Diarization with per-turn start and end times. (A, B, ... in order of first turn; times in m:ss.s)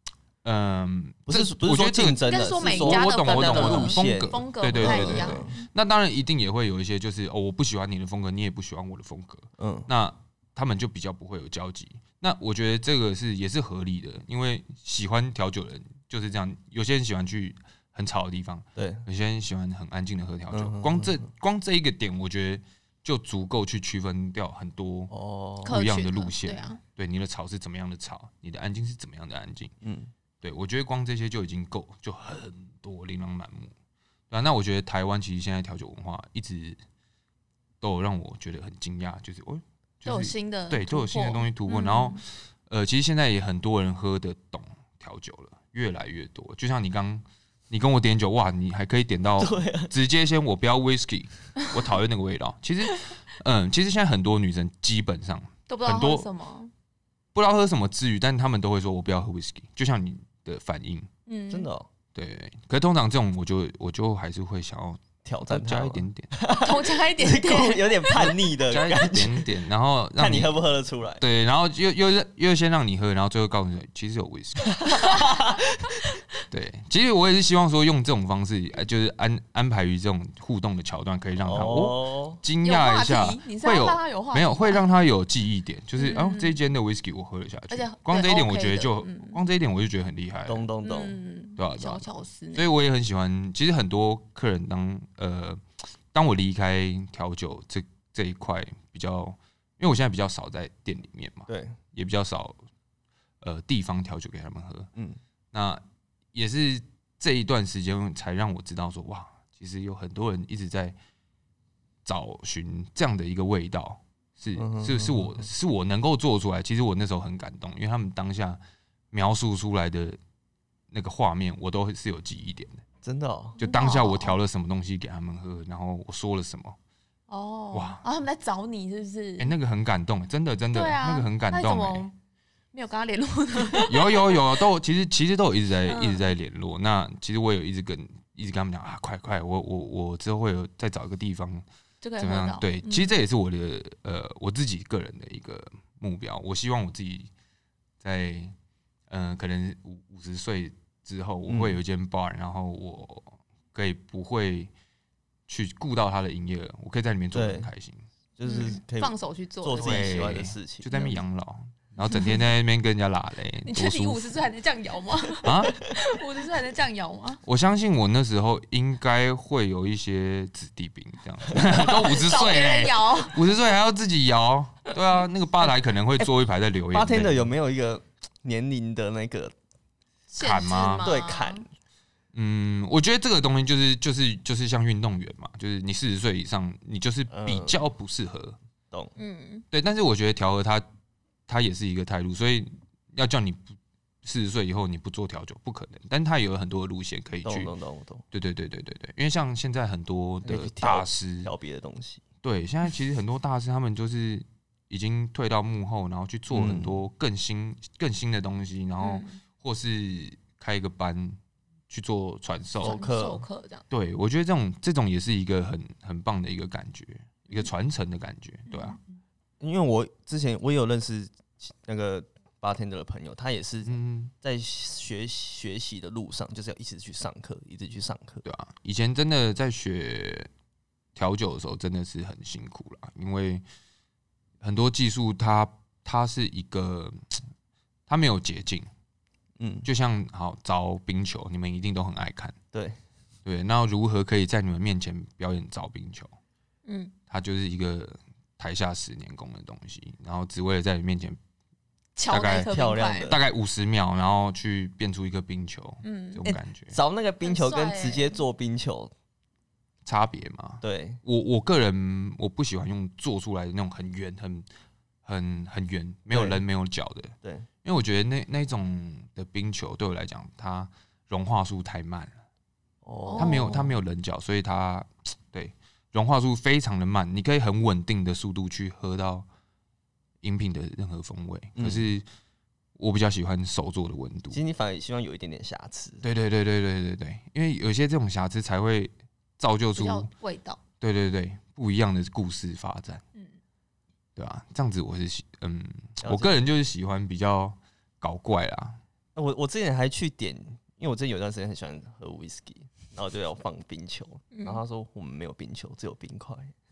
0:00.4-0:25.1 A
0:01.3-0:05.6 B
0:02.3-0:05.6 C
0:09.6-0:09.9 B
0:18.8-0:19.0 B
0:20.5-0:21.2 B
0:25.1-0:25.7 B
0:25.6-0:26.8 C
0:25.6-0:29.7 A
0:29.8-0:30.1 B
0:30.4-0:33.7 A
0:34.3-0:36.8 A
0:37.8-0:56.3 A
0:40.0-0:42.2 C
0:49.4-0:49.9 B
0:55.7-0:56.7 C
0:57.3-1:01.1 A
1:01.3-1:01.7 C
1:01.5-1:01.9 B
1:02.1-1:06.3 A
1:05.2-1:09.5 B
1:06.5-1:08.3 C
1:08.7-1:10.5 A
1:10.2-1:11.2 B
1:11.2-1:14.8 A
1:14.7-1:15.9 B
1:14.9-1:15.4 C
1:16.5-1:30.7 A
1:21.4-1:22.4 B
1:22.6-1:24.8 C
1:26.0-1:26.6 C
1:27.7-1:29.4 C
1:30.4-1:31.2 B
1:30.8-1:32.7 C
1:31.6-1:35.6 A
1:36.1-1:42.6 A
1:41.5-1:41.8 B
1:43.4-1:44.9 A
1:45.5-1:45.8 A
1:46.3-1:51.0 A
1:52.0-1:58.6 A
1:54.6-1:55.5 B
1:59.1-2:00.2 A
2:00.9-2:02.8 A
2:03.0-2:03.6 B
2:03.6-2:04.4 C
2:03.6-2:06.8 A
2:07.3-2:09.5 C
2:07.7-2:08.0 A
2:09.4-2:12.1 A
2:10.7-2:12.1 C
2:12.7-2:14.4 C
2:13.8-2:21.6 A
2:15.9-2:16.2 C
2:22.0-2:23.2 C
2:22.2-2:27.3 A
2:28.0-2:28.5 A
2:29.1-2:34.7 A
2:31.5-2:31.8 B
2:35.5-2:38.0 A
2:37.3-2:37.7 B
2:38.4-2:41.2 B
2:38.4-2:40.4 C
2:39.8-2:44.3 A
2:42.0-2:42.4 C
2:43.6-2:47.4 C
2:45.4-2:45.7 A
2:47.4-2:57.5 A
2:51.5-2:51.8 B
2:51.7-2:53.4 C
2:56.9-2:59.5 B
3:00.3-3:01.6 C
3:00.4-3:01.1 A
3:01.0-3:01.6 B
3:02.3-3:08.6 A
3:07.3-3:07.8 B
3:09.2-3:09.6 C
3:09.7-3:10.8 A
3:11.5-3:17.7 A
3:17.4-3:18.2 B
3:18.3-3:21.5 A
3:20.4-3:22.2 B
3:22.4-3:31.4 A
3:26.5-3:27.0 B
3:29.0-3:29.4 C
3:31.9-3:33.0 A
3:32.8-3:33.8 C
3:32.8-3:33.4 B
3:33.9-3:39.0 A
3:38.7-3:39.0 C
3:39.6-3:48.4 B
3:43.8-3:44.3 A
3:48.4-3:50.5 A
3:51.2-3:53.6 A
3:54.6-3:57.4 A
3:58.1-3:58.9 A
3:59.6-3:59.9 B
3:59.8-4:02.6 A
4:02.7-4:03.0 B
4:03.4-4:06.3 A
4:06.8-4:07.1 C
4:07.3-4:11.4 A
4:12.2-4:13.3 C
4:12.3-4:12.7 A
4:12.6-4:13.4 B
4:13.2-4:17.0 A
4:16.0-4:16.4 C
4:16.4-4:19.1 B
4:17.4-4:18.4 C
4:20.0-4:24.6 A
4:20.8-4:21.2 B
4:25.2-4:32.4 A
4:26.3-4:26.6 B
4:27.4-4:27.7 B
4:33.0-4:33.9 B
4:33.2-4:33.9 C
4:33.4-4:39.5 A
4:40.4-4:42.2 A
4:41.8-4:42.1 B
4:43.0-4:44.6 A
4:44.5-4:46.2 B
4:46.2-4:50.3 A
4:50.0-4:50.8 C
4:51.0-4:53.2 A
4:54.4-4:59.0 A
4:56.2-4:56.6 B
4:59.4-5:06.7 B
5:04.5-5:04.8 C